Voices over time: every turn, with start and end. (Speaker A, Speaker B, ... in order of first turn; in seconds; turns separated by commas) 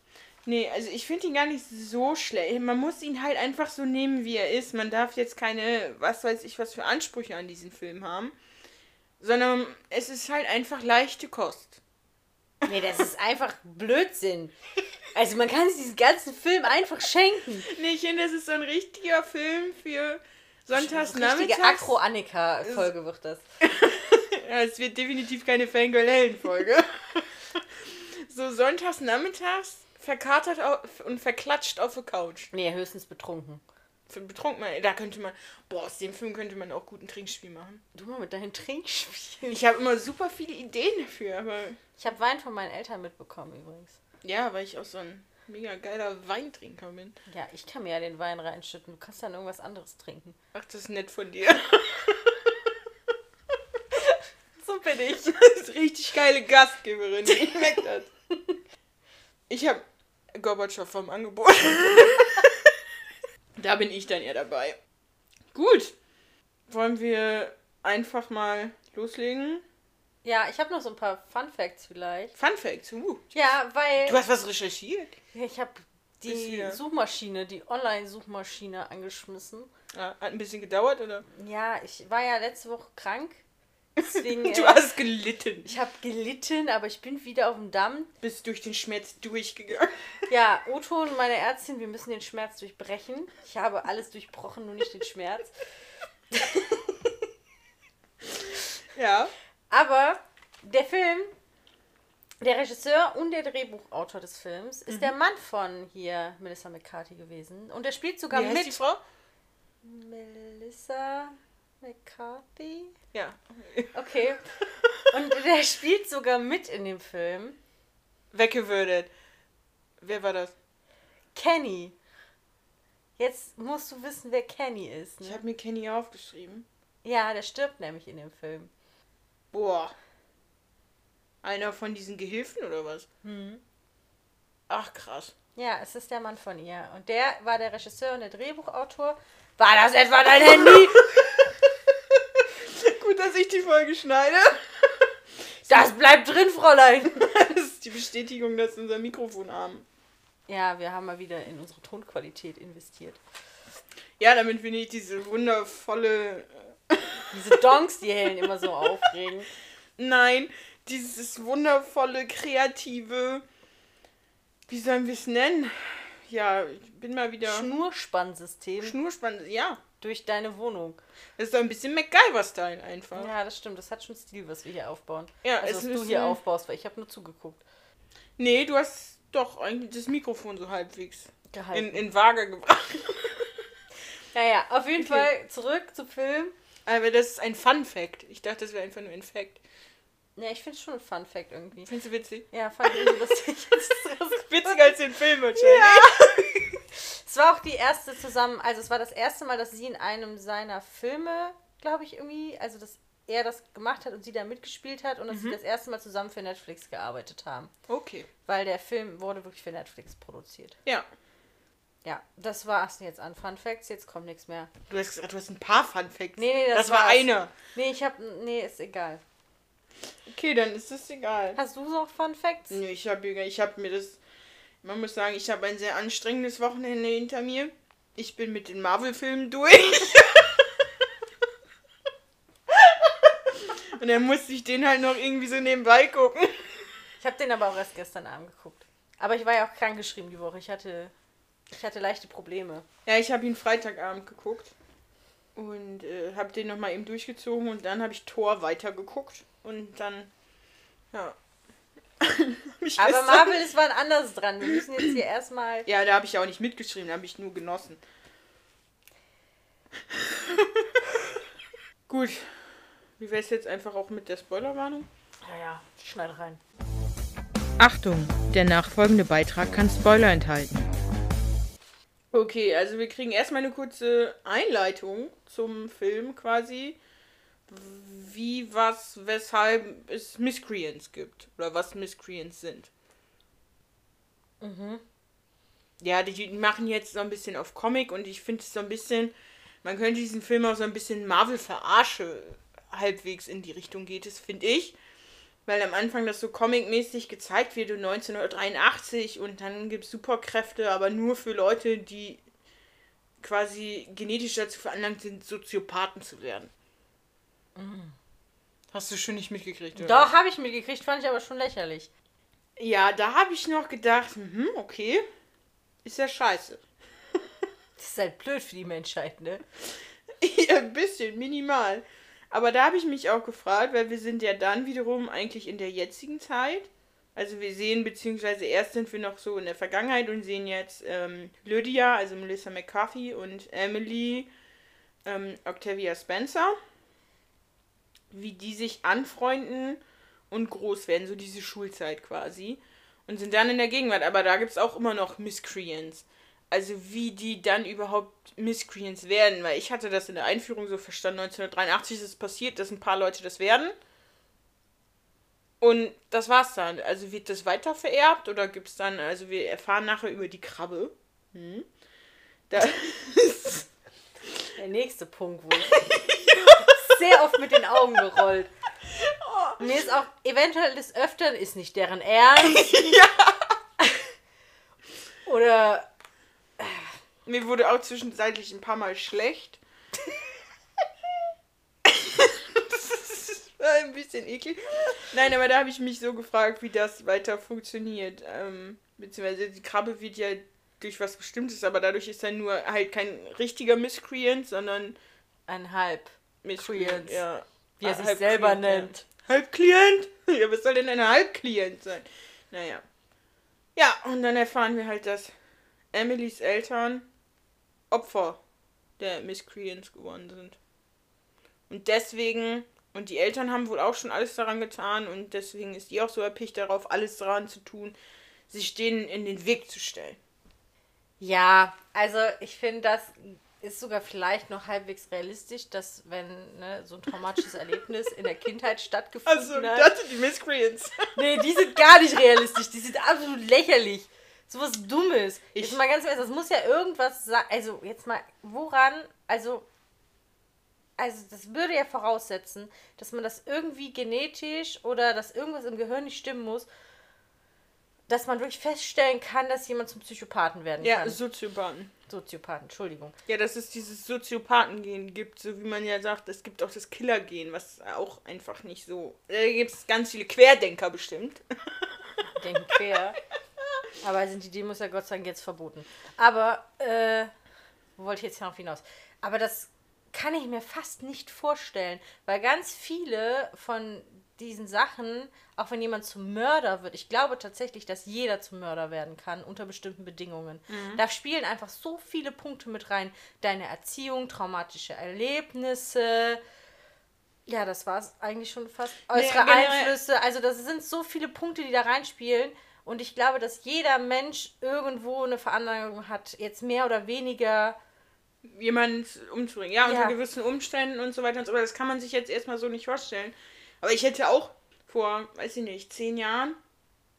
Speaker A: 0.5-8.4, Speaker A: 9.2-11.8, Speaker B: 12.6-14.6, Speaker B: 15.1-17.7, Speaker A: 17.7-22.0, Speaker B: 20.7-23.4, Speaker A: 23.6-32.5, Speaker B: 32.5-33.6, Speaker A: 34.1-37.8, Speaker B: 37.9-39.6, Speaker A: 39.5-41.8, Speaker B: 42.0-44.0, Speaker A: 44.2-47.2, Speaker B: 47.3-50.4, Speaker A: 50.5-52.8, Speaker B: 54.1-55.4, Speaker A: 55.2-58.1, Speaker A: 59.5-59.8, Speaker A: 60.3-62.7, Speaker A: 63.6-64.8, Speaker A: 65.5-66.0, Speaker A: 66.7-69.7, Speaker B: 70.2-72.3, Speaker A: 72.3-73.3, Speaker B: 73.3-74.2, Speaker A: 74.1-75.2, Speaker B: 75.3-79.7, Speaker A: 76.3-76.8, Speaker A: 79.9-81.3, Speaker B: 81.3-83.4, Speaker A: 84.0-85.7, Speaker B: 84.0-84.8, Speaker B: 85.7-88.1, Speaker A: 88.2-90.1, Speaker B: 90.3-95.5, Speaker B: 96.3-97.2, Speaker A: 98.9-99.3, Speaker B: 99.7-101.3, Speaker B: 102.4-108.8, Speaker A: 104.9-105.1, Speaker A: 108.3-109.0, Speaker B: 109.8-112.9, Speaker A: 113.1-113.9, Speaker B: 113.9-117.6, Speaker A: 114.8-115.1, Speaker A: 118.3-119.1, Speaker A: 120.0-120.5, Speaker B: 121.3-122.0, Speaker B: 123.2-125.4, Speaker A: 125.2-126.7, Speaker B: 127.0-128.7, Speaker A: 129.5-129.9, Speaker A: 131.4-133.1, Speaker B: 133.2-133.6, Speaker A: 134.7-135.3, Speaker B: 135.6-141.1, Speaker A: 140.5-145.1, Speaker B: 145.7-147.5, Speaker A: 147.2-149.9, Speaker B: 150.5-153.2, Speaker A: 154.2-157.7, Speaker B: 157.3-159.5, Speaker A: 158.4-159.1, Speaker A: 160.0-163.4, Speaker A: 164.7-167.7, Speaker B: 167.4-169.0, Speaker A: 168.8-169.8, Speaker B: 170.0-171.0, Speaker A: 171.4-173.3, Speaker B: 173.2-177.6, Speaker A: 175.4-176.4, Speaker A: 178.4-183.7, Speaker B: 181.5-182.0, Speaker B: 184.3-186.5, Speaker A: 185.0-185.3, Speaker A: 186.9-189.6, Speaker B: 190.4-191.9, Speaker A: 191.9-193.2, Speaker B: 192.5-195.0, Speaker A: 194.5-196.5, Speaker B: 195.5-207.7, Speaker A: 205.3-205.6, Speaker A: 207.9-208.3, Speaker B: 208.5-210.8, Speaker B: 212.0-214.7, Speaker A: 214.9-217.5, Speaker B: 216.4-219.2, Speaker A: 220.3-221.6, Speaker B: 221.6-222.8, Speaker A: 222.7-224.2, Speaker A: 224.8-230.9, Speaker A: 232.7-236.9, Speaker B: 237.2-241.1, Speaker B: 241.7-242.8, Speaker A: 243.1-244.7, Speaker A: 245.6-250.3, Speaker A: 252.2-253.6, Speaker B: 253.0-255.9, Speaker A: 255.9-258.0, Speaker A: 260.1-261.4, Speaker A: 262.1-265.1, Speaker B: 265.4-266.6, Speaker A: 267.8-270.9, Speaker A: 272.3-277.0, Speaker A: 277.7-282.9, Speaker B: 284.6-285.0, Speaker A: 286.0-289.3, Speaker A: 289.8-295.0, Speaker A: 295.7-302.4, Speaker A: 303.4-306.7, Speaker B: 307.8-308.2, Speaker A: 308.9-310.3, Speaker B: 310.0-312.1, Speaker A: 312.8-315.3, Speaker A: 316.1-316.8, Speaker B: 318.0-319.6, Speaker A: 320.4-334.5, Speaker A: 335.3-336.8, Speaker A: 338.3-353.9, Speaker A: 355.8-361.9, Speaker A: 362.7-363.9, Speaker B: 364.8-366.0, Speaker A: 365.9-367.2, Speaker B: 366.7-368.7, Speaker A: 369.1-369.9, Speaker B: 369.8-373.0, Speaker A: 372.6-373.7, Speaker B: 375.5-376.1, Speaker B: 376.8-377.1, Speaker A: 377.5-379.8, Speaker A: 382.1-395.2, Speaker B: 395.7-397.4, Speaker A: 396.6-403.0, Speaker B: 398.0-399.2, Speaker A: 404.0-405.5, Speaker A: 406.1-407.3, Speaker A: 408.1-408.6, Speaker A: 409.2-410.8, Speaker A: 411.9-418.2, Speaker A: 418.7-420.4, Speaker B: 421.4-430.1, Speaker A: 429.5-431.2, Speaker B: 431.4-439.9, Speaker B: 441.2-446.9, Speaker B: 448.3-451.4, Speaker A: 451.0-452.1, Speaker B: 452.3-453.4, Speaker A: 453.5-463.0, Speaker B: 462.4-463.4, Speaker B: 464.2-467.5, Speaker B: 468.2-486.6, Speaker A: 480.9-481.2, Speaker B: 487.7-498.0, Speaker A: 489.3-490.2, Speaker A: 498.6-506.8, Speaker B: 500.0-500.4